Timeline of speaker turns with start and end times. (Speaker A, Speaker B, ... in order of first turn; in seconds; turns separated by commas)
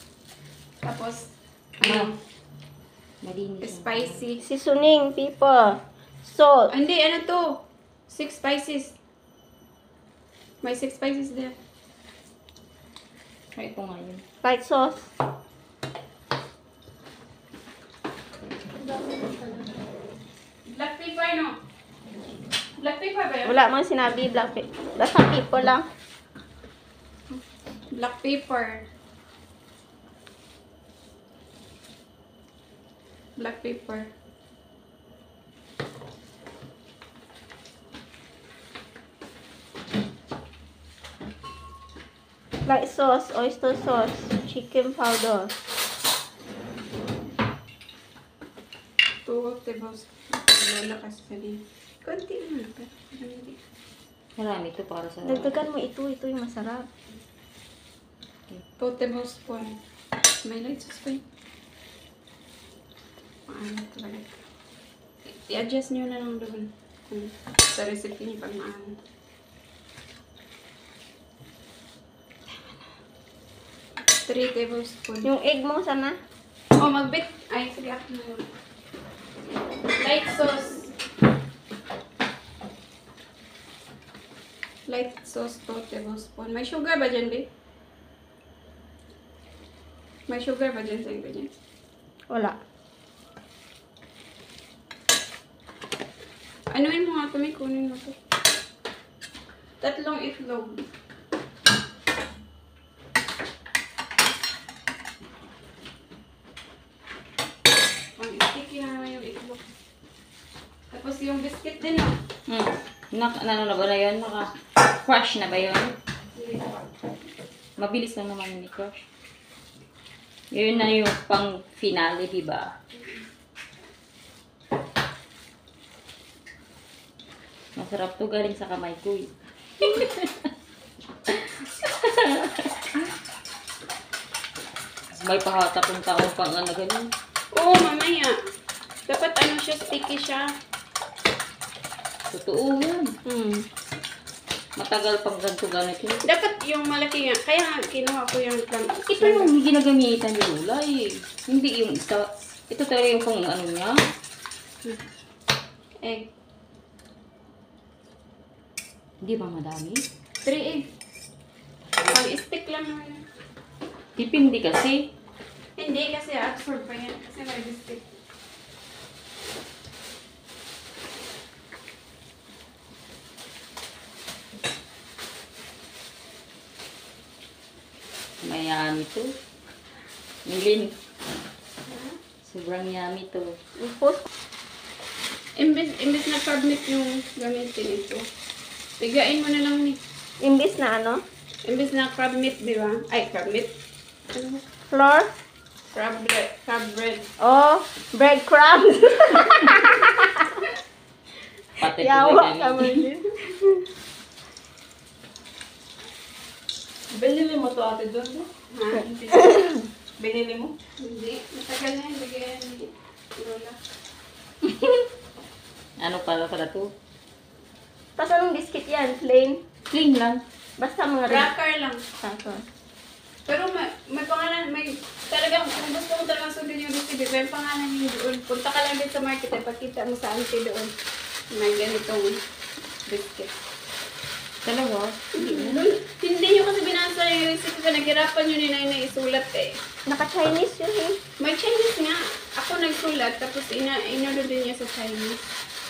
Speaker A: 0.8-2.2, Speaker B: 1.8-2.1, Speaker B: 3.2-4.2, Speaker A: 3.6-4.4, Speaker C: 4.4-6.7, Speaker A: 6.7-8.9, Speaker A: 10.6-11.6, Speaker B: 13.6-14.2, Speaker C: 14.4-15.1, Speaker A: 20.7-21.6, Speaker A: 22.8-23.6, Speaker C: 23.4-25.9, Speaker A: 27.3-28.9, Speaker A: 33.4-34.1, Speaker C: 42.6-45.5, Speaker A: 49.2-53.6, Speaker B: 54.4-55.6, Speaker C: 55.2-56.9, Speaker A: 58.8-59.8, Speaker A: 60.4-61.2, Speaker A: 63.5-64.4, Speaker A: 65.2-69.0, Speaker A: 74.2-75.3, Speaker C: 75.2-76.2, Speaker A: 76.8-78.5, Speaker A: 80.0-80.9, Speaker A: 84.9-87.5, Speaker A: 90.3-91.5, Speaker C: 92.3-92.6, Speaker A: 96.7-98.2, Speaker A: 99.8-100.8, Speaker A: 108.2-109.6, Speaker A: 110.9-112.2, Speaker B: 112.5-116.0, Speaker A: 116.3-116.8, Speaker B: 117.8-119.0, Speaker B: 120.5-122.8, Speaker B: 127.8-130.5, Speaker B: 131.3-133.0, Speaker B: 135.1-137.1, Speaker A: 137.5-138.4, Speaker A: 139.1-140.5, Speaker B: 142.3-143.1, Speaker C: 143.2-143.7, Speaker B: 144.8-146.2, Speaker A: 146.2-149.5, Speaker B: 149.1-153.9, Speaker A: 156.0-156.3, Speaker B: 159.2-160.0, Speaker A: 160.4-160.9, Speaker A: 162.1-163.2, Speaker B: 164.2-165.0, Speaker A: 165.8-168.1, Speaker B: 178.4-179.3, Speaker B: 180.4-181.0, Speaker A: 181.9-182.1, Speaker B: 182.4-183.6, Speaker C: 183.8-184.3, Speaker A: 185.6-188.3, Speaker A: 189.0-190.0, Speaker C: 190.4-191.2, Speaker A: 191.6-193.8, Speaker A: 194.3-194.6, Speaker C: 194.9-195.3, Speaker A: 195.9-197.3, Speaker C: 197.4-200.3, Speaker B: 201.8-203.0, Speaker C: 201.8-203.8, Speaker D: 207.1-208.5, Speaker A: 208.7-209.6, Speaker D: 210.2-210.7, Speaker A: 211.0-213.8, Speaker B: 216.0-216.9, Speaker C: 218.2-219.6, Speaker B: 219.9-220.4, Speaker C: 220.8-221.5, Speaker A: 221.3-222.0, Speaker C: 222.2-222.7, Speaker A: 223.5-230.9, Speaker A: 231.5-232.4, Speaker A: 233.1-233.5, Speaker B: 234.6-235.9, Speaker A: 235.3-239.8, Speaker C: 240.1-241.2, Speaker A: 241.4-245.4